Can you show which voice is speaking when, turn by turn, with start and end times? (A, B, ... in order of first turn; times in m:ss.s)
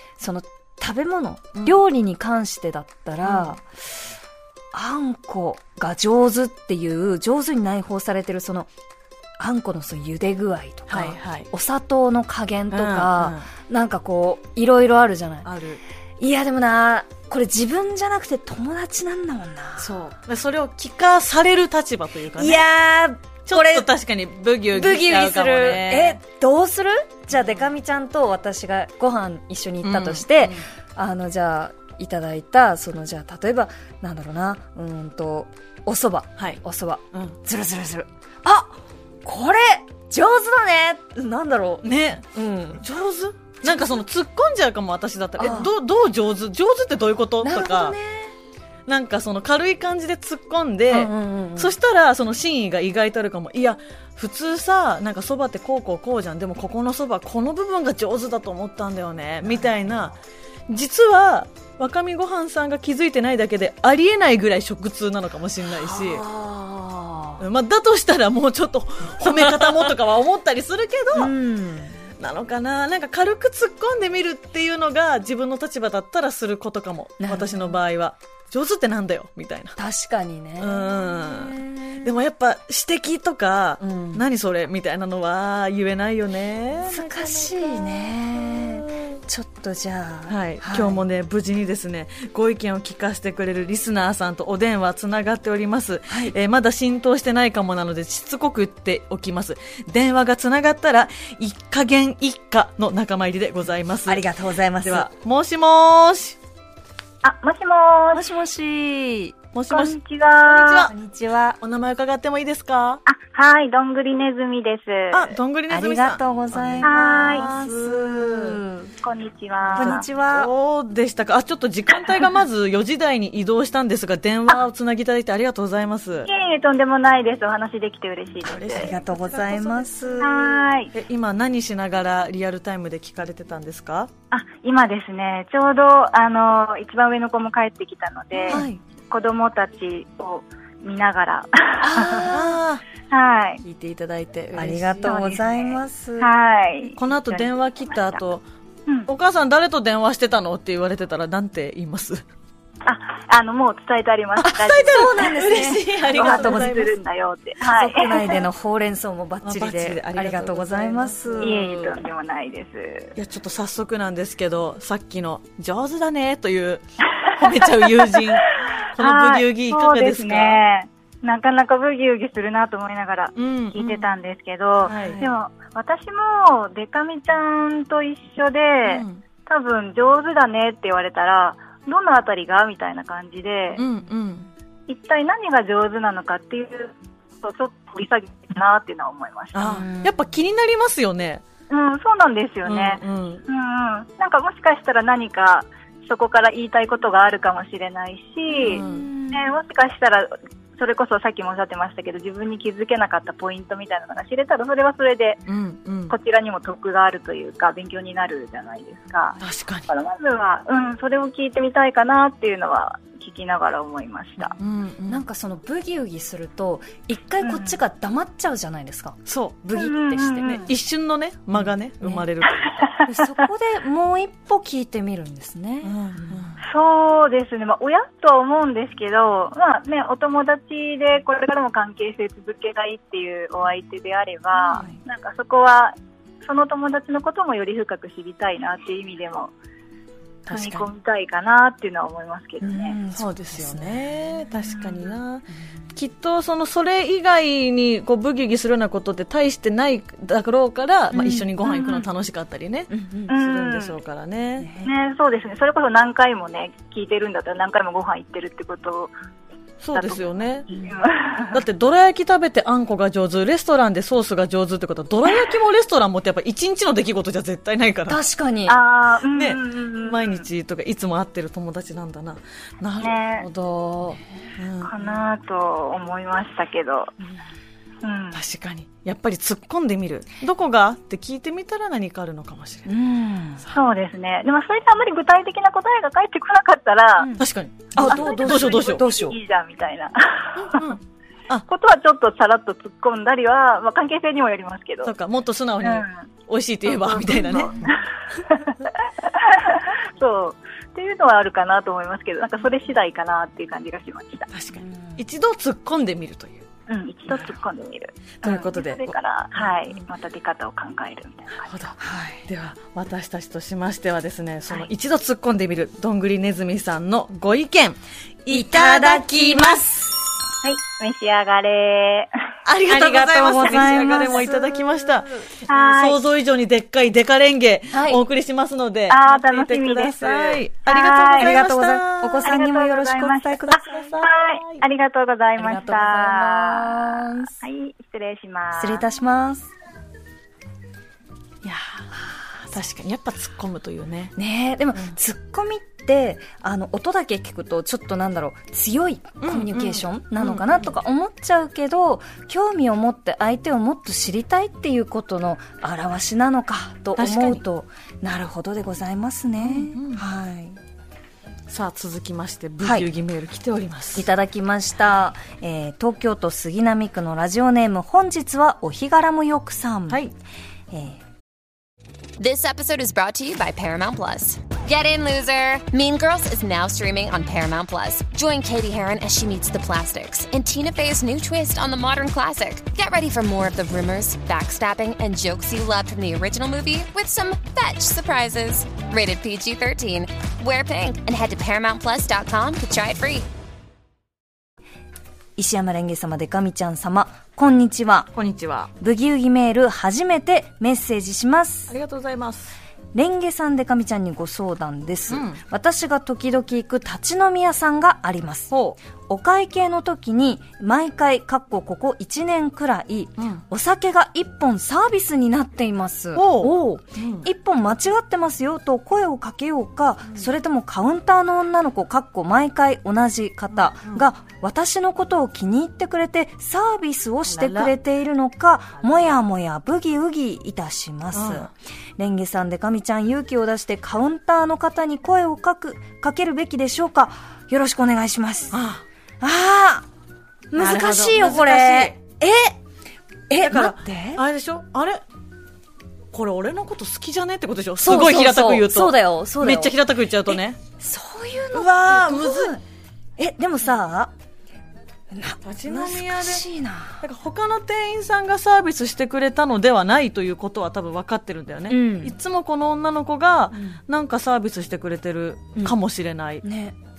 0:00.2-0:03.6 A
0:03.2-0:03.5 B
0:04.7-0:08.7 A
0:09.4-0:15.5 A
0:10.9-0:11.5 B
0:12.7-0:13.5 B
0:15.4-0:15.8 B
0:16.2-0:20.0 A
0:19.8-0:22.6 B
0:22.4-0:23.9 A
0:23.5-0:26.2 B
0:24.7-0:42.8 A
0:27.3-0:27.7 B
0:29.8-0:30.7 B
0:41.8-0:42.3 B
0:42.8-0:48.0 B
0:45.4-0:45.7 A
0:47.4-0:48.3 A
0:48.9-1:06.3 B
0:50.9-0:51.7 A
1:05.7-1:07.4 A
1:07.4-1:11.3 B
1:11.1-1:12.0 A
1:12.2-1:19.8 B
1:17.2-1:17.8 A
1:19.8-1:22.1 A
1:20.6-1:29.0 B
1:23.8-1:24.2 A
1:26.8-1:31.0 A
1:30.3-1:44.3 B
1:36.1-1:36.3 A
1:44.1-1:45.1 A
1:44.8-1:46.4 B
1:47.2-1:48.3 C
1:48.1-1:49.4 A
1:49.5-1:50.9 B
1:49.7-1:50.9 C
1:50.8-1:51.6 A
1:51.6-1:53.0 B
1:53.1-1:55.4 C
1:55.1-1:58.6 B
1:55.7-1:58.9 A
1:56.8-1:57.5 C
1:59.0-2:00.1 C
1:59.6-2:06.3 B
1:59.8-2:00.5 A
2:06.3-2:08.9 C
2:08.4-2:14.1 B
2:08.8-2:10.7 A
2:10.2-2:10.9 C
2:14.3-2:22.5 C
2:18.3-2:18.7 B
2:18.5-2:18.8 A
2:21.8-2:22.5 A
2:22.3-2:22.8 B
2:23.1-2:23.6 C
2:23.7-2:25.4 B
2:23.7-2:26.3 A
2:25.0-2:28.2 C
2:27.0-2:28.4 B
2:29.1-2:32.2 B
2:32.8-2:38.5 C
2:34.4-2:37.0 B
2:34.9-2:36.8 A
2:37.6-2:41.6 A
2:39.4-2:42.0 B
2:41.4-2:43.1 C
2:43.2-2:50.6 B
2:47.2-3:03.8 C
2:53.4-2:54.1 B
2:54.8-2:55.3 B
2:58.8-2:59.2 B
3:03.8-3:04.5 B
3:04.9-3:09.8 C
3:09.5-3:11.4 B
3:09.6-3:10.1 A
3:11.7-3:25.4 C
3:12.6-3:13.4 B
3:18.5-3:19.5 A
3:18.6-3:19.1 B
3:25.5-3:26.2 B
3:26.1-3:34.6 C
3:29.4-3:29.9 B
3:34.6-3:35.2 B
3:35.1-3:40.7 A
3:37.4-3:37.8 C
3:39.3-3:39.7 B
3:39.8-3:40.7 C
3:40.4-3:42.8 B
3:42.6-3:43.1 C
3:43.0-3:46.5 A
3:45.8-3:46.5 B
3:46.6-3:59.5 C
3:54.5-3:55.0 A
4:00.5-4:00.8 A
4:00.5-4:00.8 B
4:00.5-4:03.0 C
4:02.6-4:05.1 A
4:03.1-4:14.7 B
4:11.1-4:11.5 A
4:11.7-4:12.0 C
4:12.9-4:13.3 A
4:13.3-4:14.0 C
4:14.6-4:14.9 A
4:14.8-4:19.1 C
4:19.8-4:20.7 B
4:19.9-4:21.6 C
4:21.5-4:28.2 B
4:28.1-4:28.8 A
4:28.7-4:30.4 C
4:29.3-4:33.2 B
4:33.0-4:33.5 C
4:33.4-4:34.2 A
4:34.6-4:34.9 B
4:34.8-4:37.1 C
4:38.0-4:38.4 C
4:38.3-4:42.9 B
4:42.9-4:43.6 A
4:43.7-4:47.3 C
4:47.4-4:49.1 B
4:47.9-4:49.4 A
4:48.0-4:50.9 C
4:50.6-4:51.7 B
4:51.7-4:55.1 C
4:55.0-4:57.9 B
4:55.8-4:56.1 C
4:56.9-5:04.5 C
5:04.5-5:06.7 B
5:04.8-5:05.2 A
5:06.9-5:11.8 C
5:08.4-5:09.2 B
5:11.6-5:12.0 B
5:12.0-5:12.5 A
5:12.5-5:19.8 B
5:18.5-5:20.1 A
5:20.6-5:22.3 C
5:22.6-5:32.5 B
5:22.9-5:25.4 A
5:25.7-5:26.2 C
5:27.9-5:28.2 A
5:29.1-5:31.6 C
5:31.3-5:34.0 A
5:32.4-5:39.0 C
5:33.8-5:34.8 B
5:35.6-5:37.5 A
5:38.8-5:39.7 A
5:41.6-5:42.1 B
5:42.6-5:44.3 B
5:44.4-6:00.8 A
5:49.4-5:50.9 B
5:57.2-5:57.6 B
5:59.6-6:00.2 B
6:01.7-6:04.3 B
6:02.8-6:03.1 A
6:04.2-6:10.2 A
6:10.1-6:10.3 B
6:10.9-6:11.2 A
6:12.4-6:33.5 D
6:35.6-6:38.3 A
6:38.3-6:38.9 B
6:39.0-6:41.9 A
6:41.9-6:42.8 B
6:43.1-6:48.8 A
6:45.3-6:45.6 B
6:48.7-6:49.0 B
6:49.3-7:18.8 A
6:53.4-6:53.6 B
6:56.4-6:57.5 B
7:03.7-7:04.2 B
7:07.5-7:07.9 B
7:11.3-7:11.7 B
7:18.7-7:19.0 B
7:19.4-7:20.1 A
7:20.7-7:22.7 A
7:20.8-7:22.2 B
7:23.5-7:24.4 A
7:23.6-7:25.2 B
7:26.3-7:30.8 B
7:28.0-7:30.0 A
7:30.5-7:32.8 A
7:31.7-7:32.8 B
7:33.4-7:34.3 A
7:35.3-7:37.2 A
7:35.6-7:36.6 B
7:37.2-7:46.6 B
7:41.9-7:42.4 A
7:43.7-7:44.0 A
7:46.6-7:47.0 A